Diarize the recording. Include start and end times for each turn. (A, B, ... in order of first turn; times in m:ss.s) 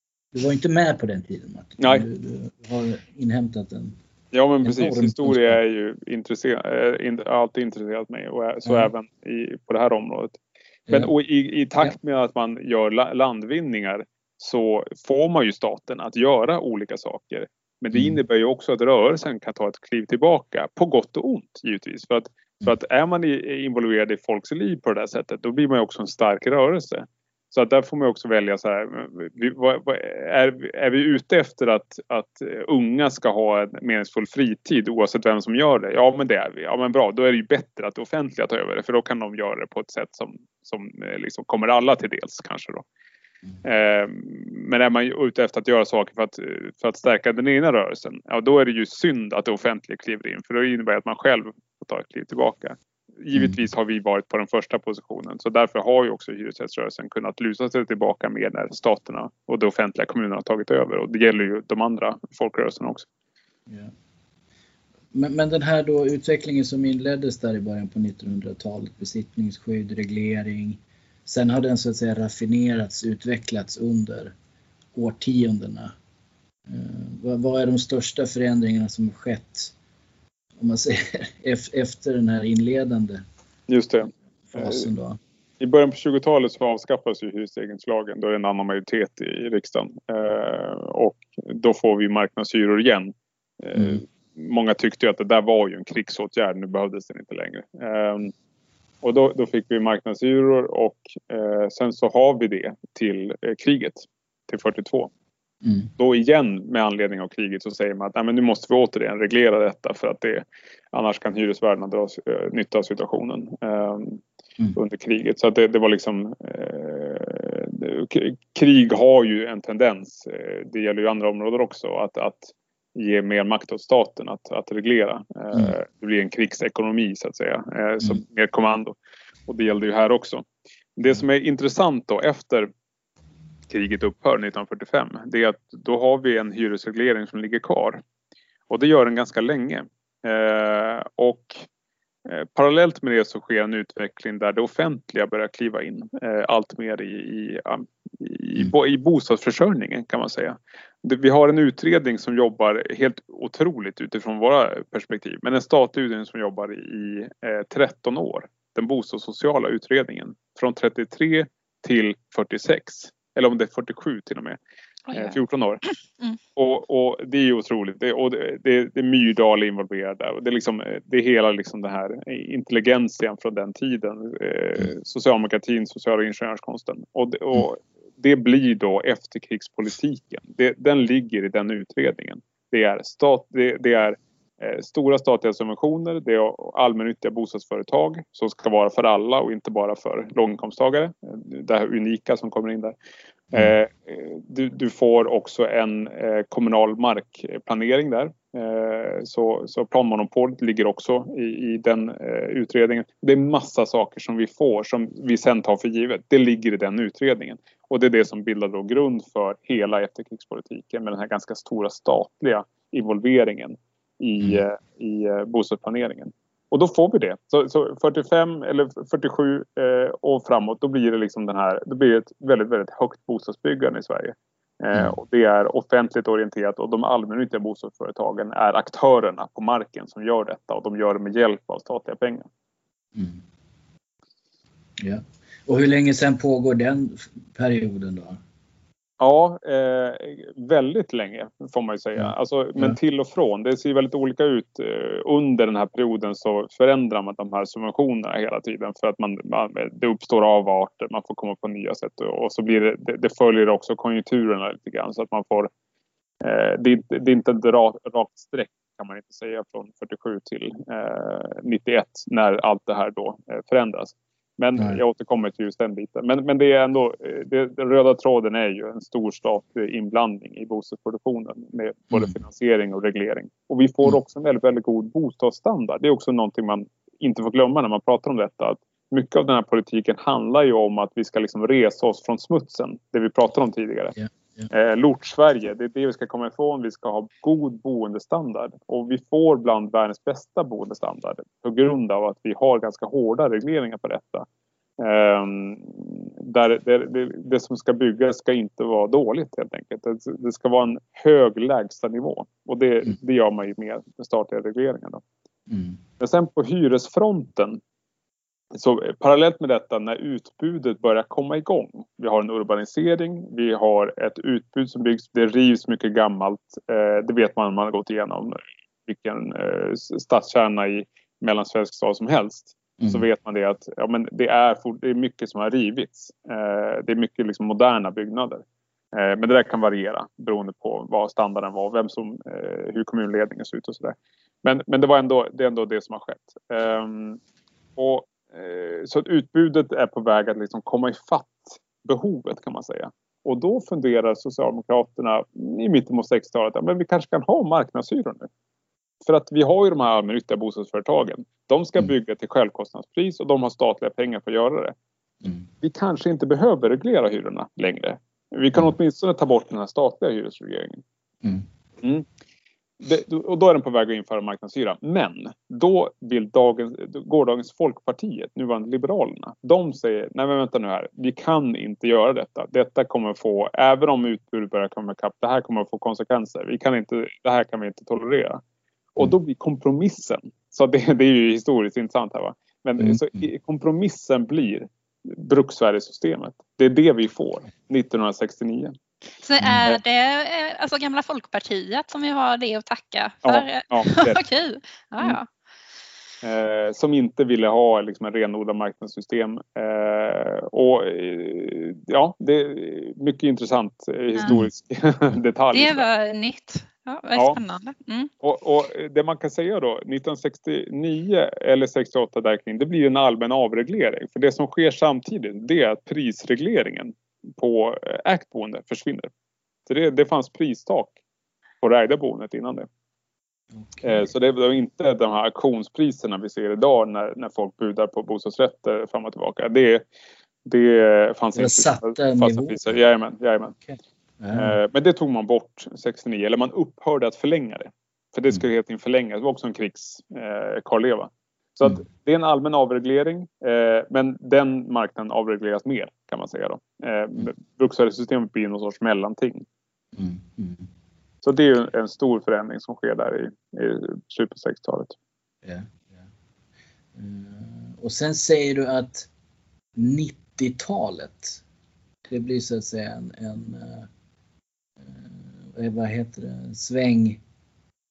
0:00.3-0:04.0 A
0:01.8-0:02.0 B
0:04.3-0:10.4 B
0:04.6-0:05.6 A
0:08.7-0:08.9 A
0:10.9-0:42.8 B
0:17.9-0:18.2 A
0:43.6-1:03.1 B
1:05.1-1:14.3 A
1:14.9-1:15.9 A
1:16.7-1:19.7 A
1:20.6-1:23.2 A
1:23.7-1:24.8 B
1:24.5-1:25.2 A
1:25.6-1:38.3 B
1:33.8-1:34.0 A
1:39.0-1:45.1 B
1:45.6-1:45.9 A
1:46.0-1:54.2 B
1:54.8-2:08.9 B
2:09.5-2:12.7 B
2:13.7-2:18.0 B
2:18.7-2:21.7 B
2:22.3-2:44.6 B
2:45.1-2:45.4 C
2:45.1-2:45.8 B
2:46.6-3:13.0 B
3:13.5-3:52.5 B
3:53.2-3:53.4 A
3:55.0-3:58.4 A
3:59.2-4:15.7 B
4:02.2-4:03.0 A
4:16.4-4:44.2 B
4:44.2-4:44.7 A
4:44.7-4:54.5 B
4:55.0-5:05.2 B
5:05.7-5:06.0 A
5:06.2-5:07.8 B
5:08.7-5:37.4 B
5:38.0-5:48.5 B
5:49.2-5:55.0 B
5:55.8-6:01.0 B
6:03.0-6:18.6 B
6:19.2-6:28.9 B
6:23.0-6:23.5 A
6:29.4-6:35.5 C
6:29.6-6:29.9 A
6:33.4-6:34.4 B
6:36.4-6:46.1 B
6:45.7-6:48.3 C
6:48.4-6:59.3 B
6:59.9-7:01.2 B
7:01.8-7:02.9 B
7:03.7-7:04.3 A
7:04.0-7:10.0 B
7:10.6-7:13.8 B
7:11.6-7:13.0 A
7:13.8-7:14.8 A
7:14.5-7:29.6 B
7:30.1-7:30.9 A
7:31.4-7:35.2 B
7:35.6-7:36.3 A
7:37.1-7:39.3 A
7:40.0-7:41.6 A
7:42.3-7:44.1 A
7:45.0-7:47.4 A